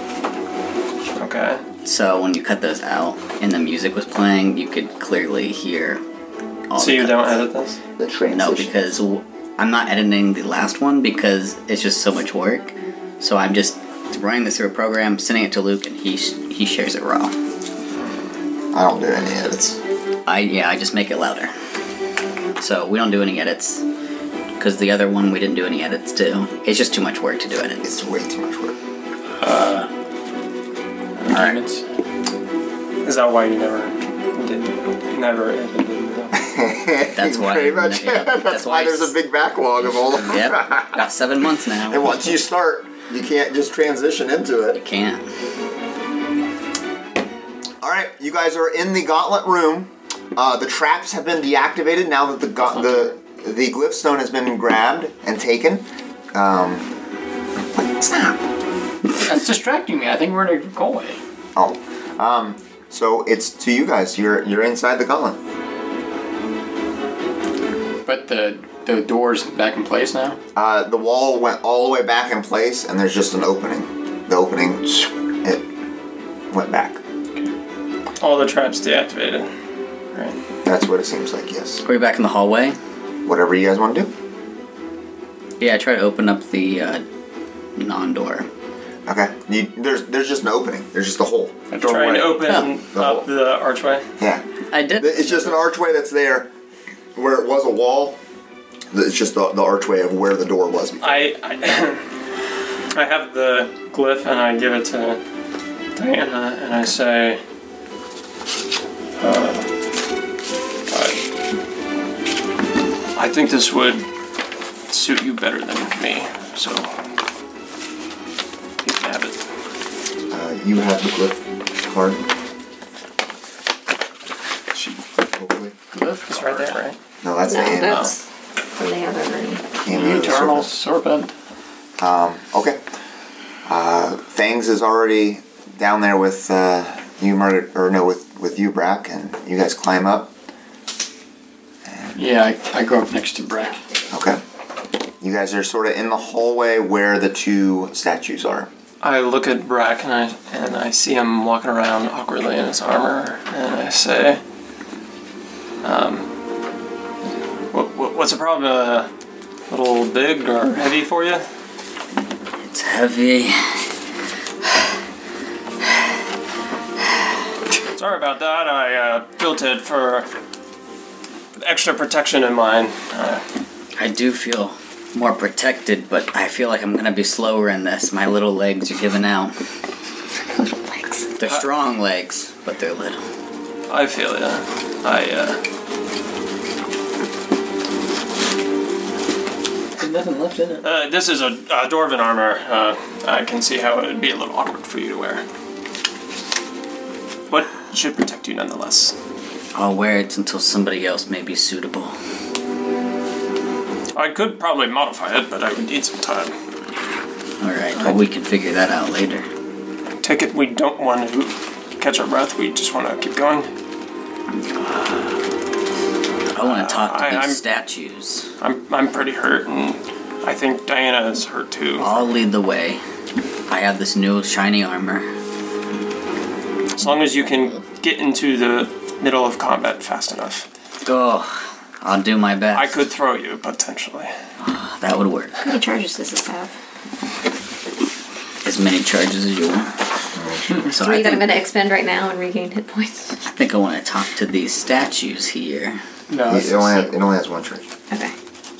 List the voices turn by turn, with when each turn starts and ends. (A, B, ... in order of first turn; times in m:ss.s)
0:01.1-0:01.6 A
0:01.8-0:06.0 B
0:06.7-0:07.4 B
0:06.8-0:07.8 A
0:08.0-0:08.9 C
0:08.3-0:17.4 B
0:18.7-0:19.8 C
0:20.3-0:21.5 B
0:22.6-0:23.8 B
0:24.6-0:28.0 B
0:27.8-0:28.8 C
0:29.4-0:29.9 D
0:31.3-0:31.8 D
0:33.0-0:36.4 A
0:36.3-0:41.0 C
0:37.2-0:39.2 B
0:40.0-0:42.3 B
0:41.8-0:44.8 C
0:44.8-0:45.3 B
0:47.8-0:56.9 C
0:57.7-0:58.4 C
0:59.2-1:01.2 D
1:01.6-1:05.4 C
1:08.1-1:10.4 D
1:10.6-1:15.7 C
1:16.5-1:17.0 C
1:18.2-1:19.5 A
1:20.1-1:20.4 A
1:20.6-1:21.8 C
1:21.8-1:22.8 B
1:23.3-1:24.1 C
1:25.6-1:27.0 B
1:27.8-1:28.5 B
1:29.1-1:31.6 C
1:31.7-1:32.7 D
1:31.8-1:34.1 A
1:32.4-1:32.7 B
1:32.9-1:33.3 C
1:34.2-1:36.5 C
1:34.7-1:35.6 B
1:37.2-1:38.2 C
1:38.9-1:41.3 C
1:41.0-1:42.0 A
1:42.9-1:45.2 A
1:46.0-1:47.4 A
1:49.2-1:49.7 A
1:50.9-1:51.2 A
1:53.2-1:54.1 A
1:54.9-1:56.9 A
1:58.8-1:59.4 A
2:00.3-2:02.3 C
2:05.3-2:05.8 C
2:05.9-2:06.8 D
2:06.3-2:07.0 A
2:07.2-2:08.1 C
2:07.5-2:08.2 E
2:07.8-2:08.1 A
2:08.8-2:09.8 E
2:09.8-2:10.7 C
2:09.9-2:11.3 D
2:12.0-2:12.8 C
2:13.7-2:20.3 C
2:21.8-2:22.3 C
2:22.2-2:23.8 D
2:24.1-2:24.4 C
2:25.2-2:28.7 C
2:29.0-2:34.4 A
2:35.8-2:36.3 A
2:37.7-2:39.1 A
2:39.7-2:41.4 A
2:42.7-2:43.8 B
2:47.9-2:50.3 A
2:51.6-2:53.4 A
2:54.0-2:59.5 B
3:00.6-3:01.3 E
3:01.4-3:03.2 B
3:03.9-3:05.6 A
3:10.0-3:10.8 D
3:10.8-3:15.4 A
3:17.5-3:19.2 A
3:19.8-3:22.2 B
3:24.1-3:26.6 A
3:27.6-3:29.5 B
3:30.2-3:33.7 A
3:34.8-3:35.4 B
3:36.5-3:38.5 B
3:36.6-3:37.6 A
3:38.6-3:42.3 A
3:42.0-3:43.0 B
3:43.7-3:45.3 B
3:47.0-3:50.7 A
3:51.0-3:53.0 B
3:52.7-3:54.3 A
3:54.6-3:55.6 B
3:55.6-3:56.7 E
3:58.6-4:00.0 B
4:00.4-4:00.8 C
4:00.9-4:01.6 B
4:00.9-4:03.4 E
4:03.4-4:06.0 B
4:06.3-4:07.1 D
4:06.5-4:07.9 C
4:08.1-4:08.4 E